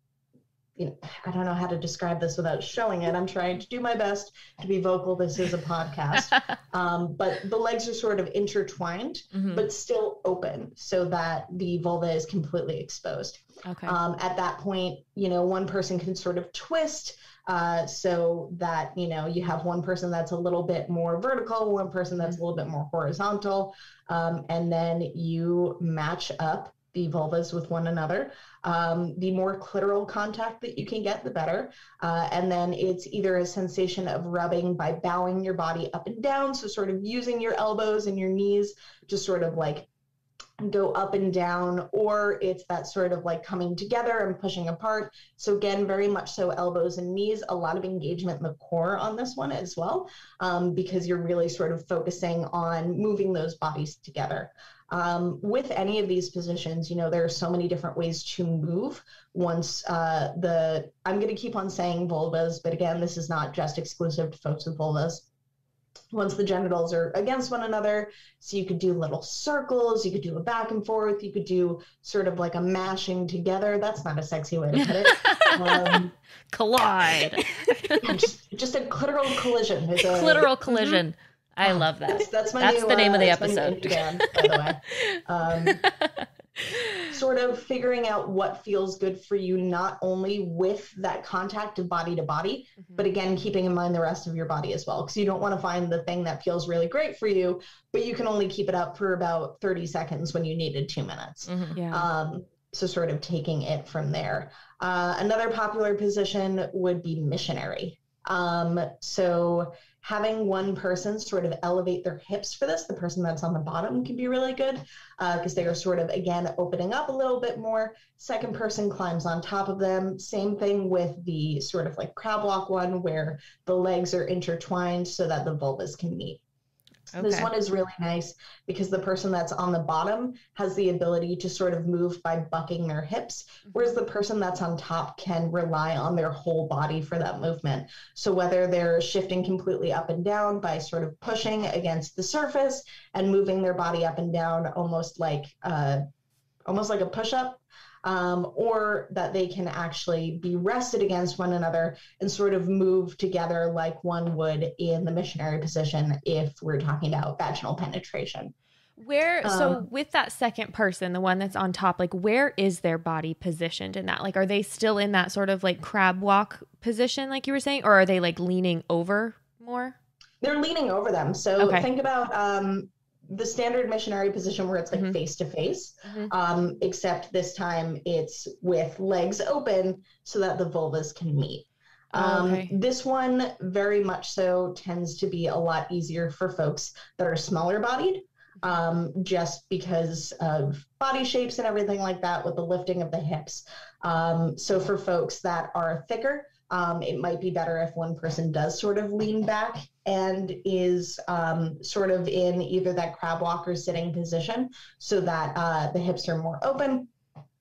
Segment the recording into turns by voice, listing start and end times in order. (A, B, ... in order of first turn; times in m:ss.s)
0:00.8-0:39.9 A
0:09.3-0:09.7 B
0:13.7-0:14.0 C
0:40.6-1:05.3 A
1:06.1-1:16.1 A
1:15.0-1:18.2 B
1:18.0-1:20.5 A
1:20.1-1:27.0 B
1:20.7-1:21.0 C
1:21.6-1:25.8 A
1:27.1-2:06.4 A
1:41.5-1:41.8 B
1:41.8-1:42.1 C
2:07.1-2:07.5 B
2:07.2-2:26.0 A
2:26.7-2:38.5 A
2:39.0-2:50.0 C
2:39.4-2:39.8 A
2:50.4-3:27.1 A
2:51.6-2:51.9 C
2:56.0-2:56.3 C
3:02.1-3:02.7 C